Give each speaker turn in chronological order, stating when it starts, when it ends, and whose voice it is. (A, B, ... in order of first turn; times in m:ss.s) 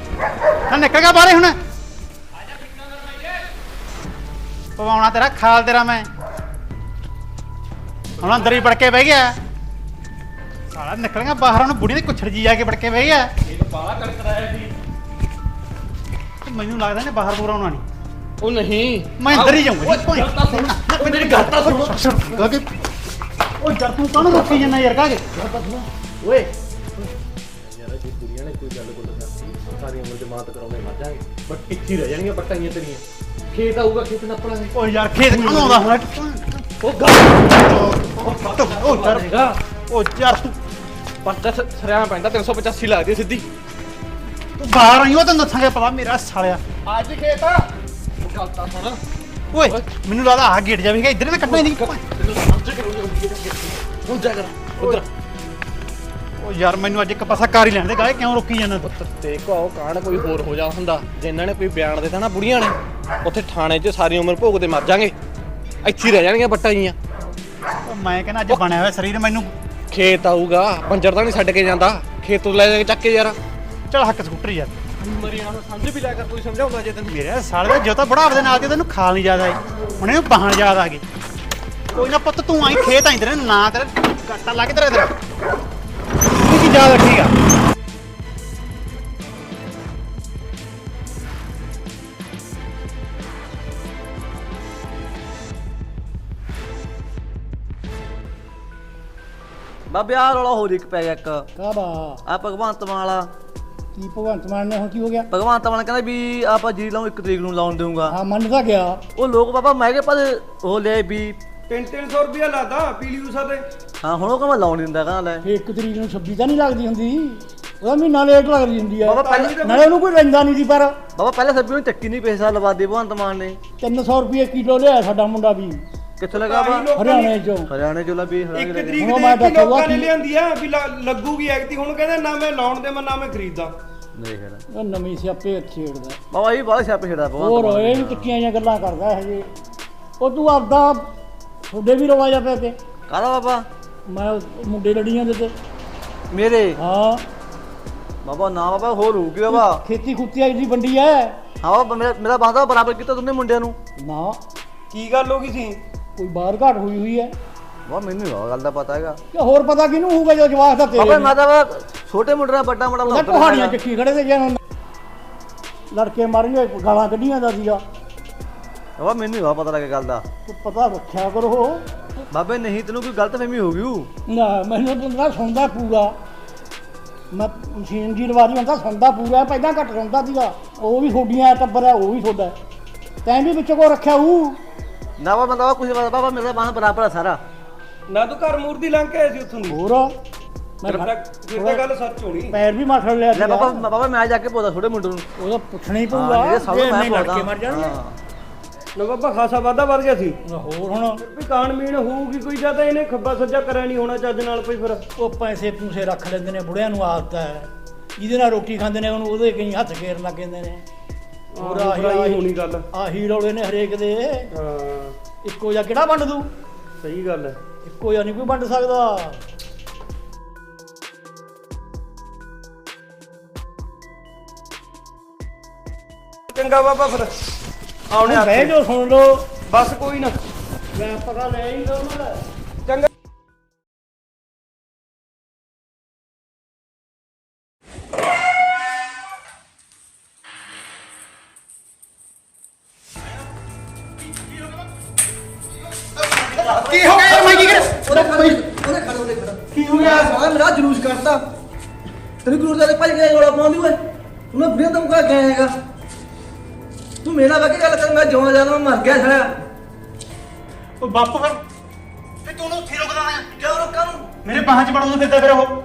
0:00.7-0:01.5 A
0:04.8-0:06.1 A
0:08.2-0:09.3 A
0:10.7-0:13.3 A
0:13.4-0:14.7 B
0:16.4-0:17.8 A
0:18.4-0:21.9 B
0:19.2-0:22.5 A
0:23.6-0:25.2 A
0:25.4-0:26.5 B
0:27.6-0:34.7 B
0:34.7-0:36.6 A
0:35.3-0:35.8 B
0:36.8-0:37.5 B
0:37.6-0:39.3 A
0:38.4-0:39.6 B
0:39.9-0:40.6 A
0:41.2-0:43.4 B
0:44.6-0:46.6 A
0:46.8-0:47.7 B
0:48.2-0:49.0 B
0:49.5-0:52.0 A
0:51.4-0:55.0 B
0:56.4-0:58.9 A
0:58.8-1:05.1 B
1:05.8-1:07.0 B
1:07.8-1:09.5 A
1:09.9-1:13.4 B
1:13.9-1:14.7 A
1:15.0-1:17.1 B
1:17.1-1:21.0 A
1:21.9-1:25.1 A
1:26.4-1:27.3 A
1:39.9-1:41.5 C
1:41.6-1:42.2 D
1:42.2-1:43.3 C
1:43.9-1:45.3 D
1:45.3-1:48.2 C
1:48.1-1:49.0 D
1:49.2-1:51.4 C
1:51.7-1:53.6 E
1:54.0-1:55.4 C
1:55.4-2:00.9 D
1:59.0-1:59.6 C
1:59.1-1:59.9 E
2:01.2-2:03.6 C
2:03.8-2:05.8 D
2:06.2-2:06.9 C
2:06.3-2:07.3 E
2:06.9-2:07.7 D
2:07.6-2:09.0 C
2:08.5-2:13.7 E
2:09.0-2:10.1 D
2:14.2-2:14.6 C
2:14.7-2:16.2 D
2:16.3-2:18.4 C
2:17.4-2:19.5 D
2:20.2-2:21.1 D
2:21.7-2:22.8 D
2:23.1-2:23.6 C
2:24.1-2:25.5 D
2:26.3-2:26.8 C
2:26.8-2:27.2 D
2:28.2-2:29.8 C
2:29.5-2:31.4 D
2:31.6-2:33.8 C
2:34.0-2:34.4 D
2:34.9-2:35.8 E
2:36.2-2:37.3 D
2:37.9-2:39.2 C
2:39.3-2:41.3 D
2:40.9-2:43.8 C
2:43.0-2:44.6 D
2:45.9-2:47.8 D
2:49.0-2:50.2 C
2:50.5-2:51.8 D
2:52.3-2:54.1 C
2:54.3-2:56.1 D
2:57.3-3:02.6 D
3:03.2-3:04.6 D
3:05.2-3:07.4 C
3:08.1-3:09.8 E
3:09.7-3:10.1 D
3:10.8-3:11.8 D
3:10.8-3:12.6 E
3:12.5-3:13.8 D
3:13.3-3:15.3 C
3:15.4-3:18.0 D
3:16.1-3:18.1 C
3:19.0-3:20.4 E
3:20.4-3:21.2 D
3:21.2-3:25.0 E
3:25.2-3:30.8 D
3:31.5-3:32.8 E
3:31.6-3:34.5 D
3:34.5-3:35.2 E
3:35.4-3:36.5 D
3:37.0-3:37.6 E
3:37.8-3:39.4 D
3:46.5-3:47.3 E
3:48.1-3:48.7 E
3:48.2-3:49.5 D
3:49.6-3:50.4 E
3:50.9-3:52.4 D
4:06.2-4:08.6 A
4:06.5-4:11.4 C
4:09.7-4:10.3 A
4:12.4-4:14.0 C
4:14.5-4:15.7 C
4:17.2-4:19.5 C
4:21.0-4:21.6 A
4:22.4-4:23.5 A
4:23.5-4:24.3 C
4:24.4-4:25.7 A